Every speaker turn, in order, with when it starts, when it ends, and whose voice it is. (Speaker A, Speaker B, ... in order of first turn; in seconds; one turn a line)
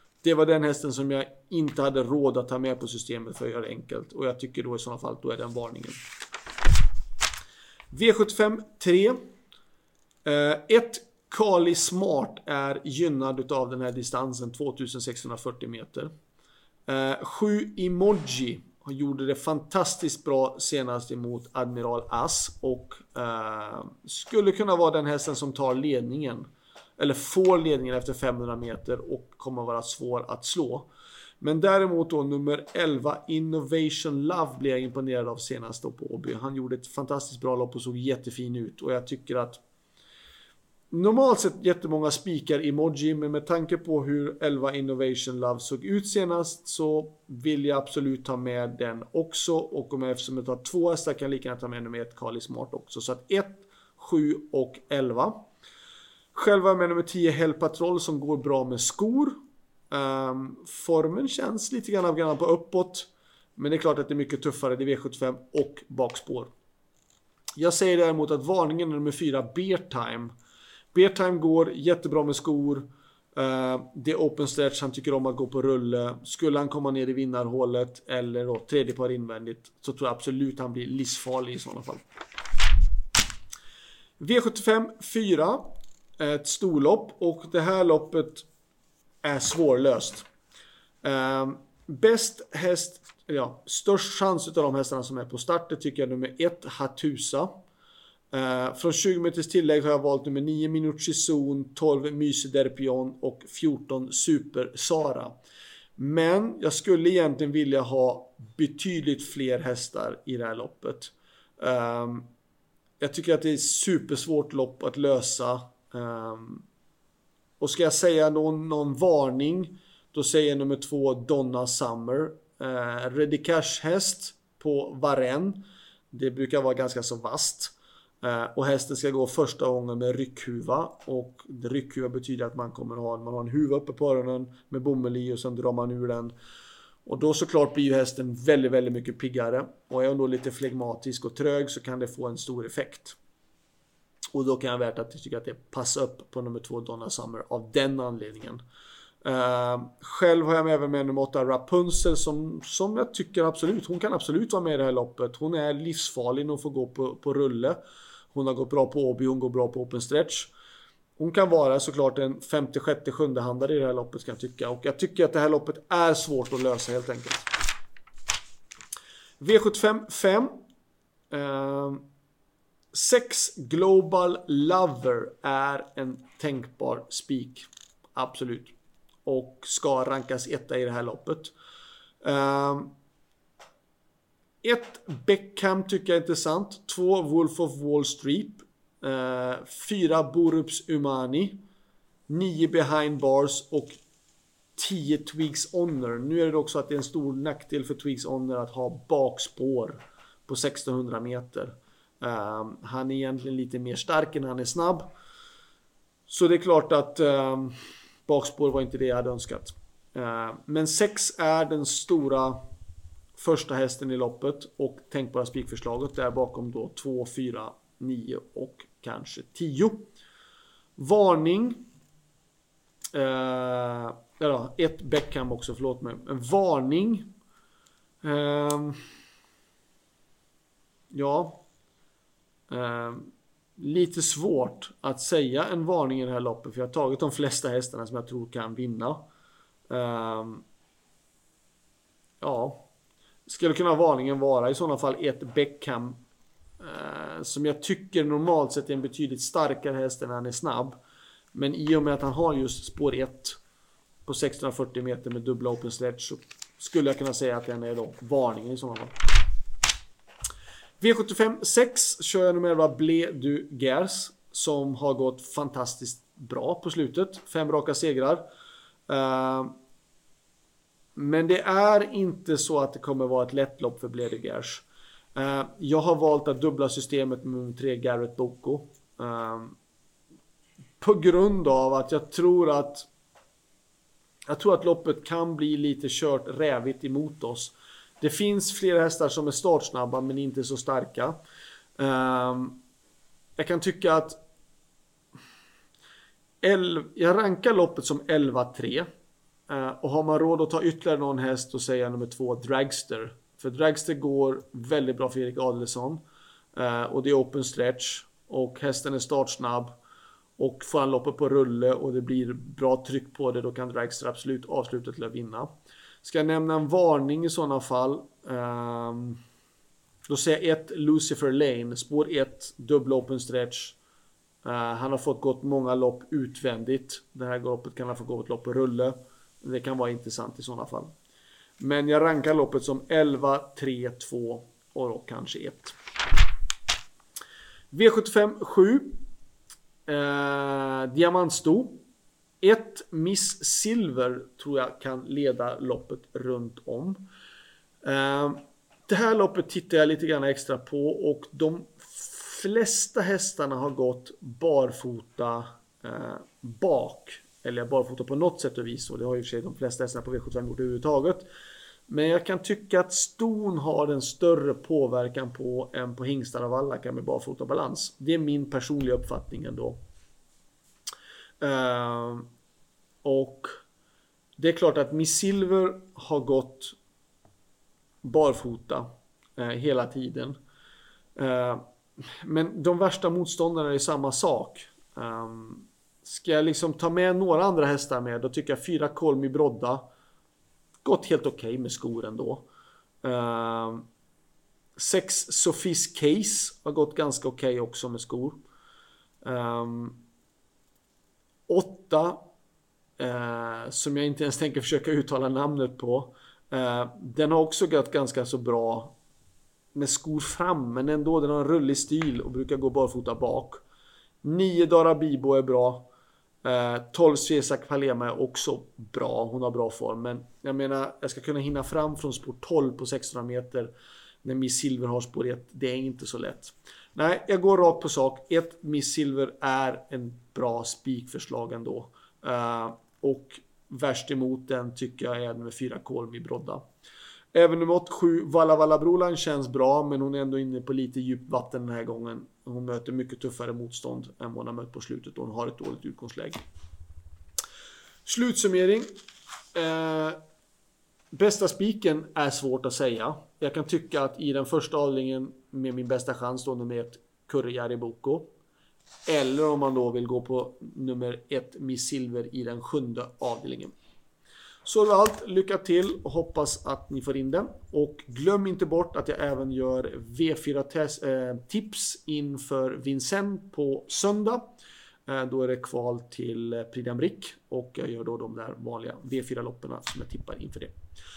Speaker A: 0.2-6.0
Speaker A: 7.9-9.2
Speaker A: 10.2-16.1
Speaker A: 16.9-26.5
Speaker A: 27.0-30.9
Speaker A: 31.4-39.6
Speaker A: 40.9-55.5
Speaker A: 56.3-59.4
Speaker A: 59.9-66.5
Speaker A: 67.6-70.3
Speaker A: 70.9-82.0
Speaker A: 84.2-88.5
Speaker A: 89.2-90.3
Speaker A: 91.0-97.6
Speaker A: 98.3-105.3
Speaker A: 106.0-112.3
Speaker A: 113.0-116.6
Speaker A: 117.6-136.3
Speaker A: 137.1-143.2
Speaker A: 144.3-148.6
Speaker A: 149.2-157.8
Speaker A: 158.3-160.5
Speaker A: 161.2-167.5
Speaker A: 169.4-170.6
Speaker A: 171.3-172.0
Speaker A: 172.9-178.7
Speaker A: 179.2-181.5
Speaker A: 182.2-182.9
Speaker A: 184.6-191.6
Speaker A: 192.3-194.0
Speaker A: 194.8-205.1
Speaker A: 206.3-212.6
Speaker A: 213.4-220.1
Speaker A: 221.0-221.8
Speaker A: 223.1-227.3
Speaker A: 228.2-229.0
Speaker A: 231.1-231.6
Speaker A: 232.7-239.3
Speaker A: 239.9-240.6
Speaker A: 242.4-242.9
Speaker A: 243.5-246.2
Speaker A: 246.8-251.0
Speaker A: 251.5-253.6
Speaker A: 254.3-259.2
Speaker A: 261.0-268.4
Speaker A: 269.1-269.7
Speaker A: 271.2-274.8
Speaker A: 275.4-279.8
Speaker A: 281.0-283.1
Speaker A: 284.5-291.4
Speaker A: 292.0-292.8
Speaker A: 293.6-294.4
Speaker A: 296.6-299.1
Speaker A: 299.7-306.2
Speaker A: 306.8-309.9
Speaker A: 310.6-315.7
Speaker A: 316.2-319.4
Speaker A: 320.3-324.0
Speaker A: 324.6-331.1
Speaker A: 331.8-335.9
Speaker A: 337.9-339.2
Speaker A: 340.1-342.0
Speaker A: 342.6-347.2
Speaker A: 348.0-361.5
Speaker A: 362.1-370.0
Speaker A: 371.6-372.5
Speaker A: 373.2-373.7
Speaker A: 374.6-377.0
Speaker A: 378.2-380.6
Speaker A: 381.4-390.1
Speaker A: 391.0-392.7
Speaker A: 393.2-394.1
Speaker A: 395.0-398.6
Speaker A: 399.4-400.2
Speaker A: 401.7-402.4
Speaker A: 403.2-409.1
Speaker A: 409.9-413.8
Speaker A: 414.4-416.1
Speaker A: 416.6-423.9
Speaker A: 424.4-436.8
Speaker A: 437.5-446.6
Speaker A: 448.3-449.1
Speaker A: 449.7-450.4
Speaker A: 451.3-458.5
Speaker A: 459.3-463.9
Speaker A: 464.9-474.7
Speaker A: 475.3-480.9